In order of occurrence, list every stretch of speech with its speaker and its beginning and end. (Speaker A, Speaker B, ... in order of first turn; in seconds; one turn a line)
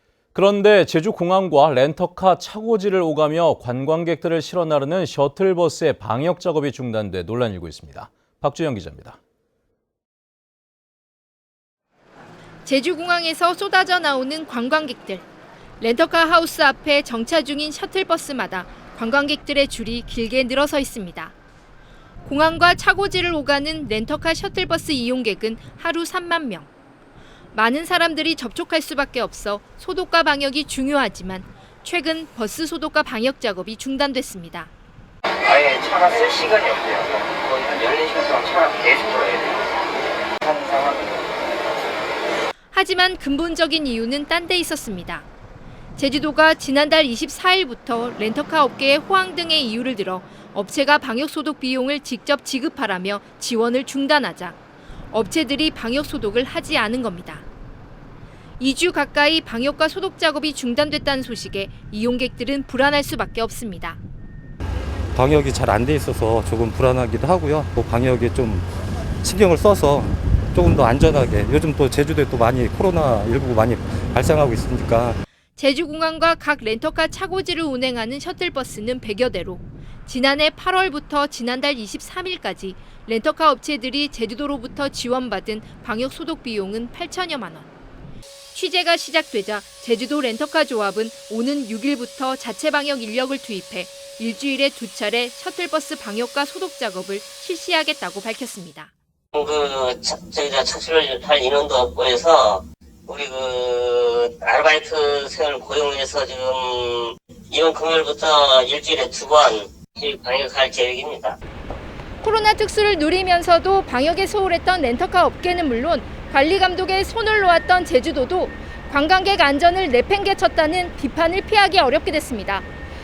Speaker A: 0.3-9.2
Speaker B: 12.6-15.2
Speaker B: 15.8-21.3
Speaker B: 22.2-26.7
Speaker B: 27.5-34.7
Speaker C: 35.4-39.7
Speaker C: 40.4-41.2
Speaker B: 42.7-45.3
Speaker B: 46.0-54.6
Speaker B: 55.1-57.5
Speaker B: 58.6-64.0
Speaker D: 65.1-68.7
Speaker D: 69.2-75.2
Speaker B: 75.6-87.7
Speaker B: 88.5-98.9
Speaker E: 99.3-111.4
Speaker B: 112.2-122.7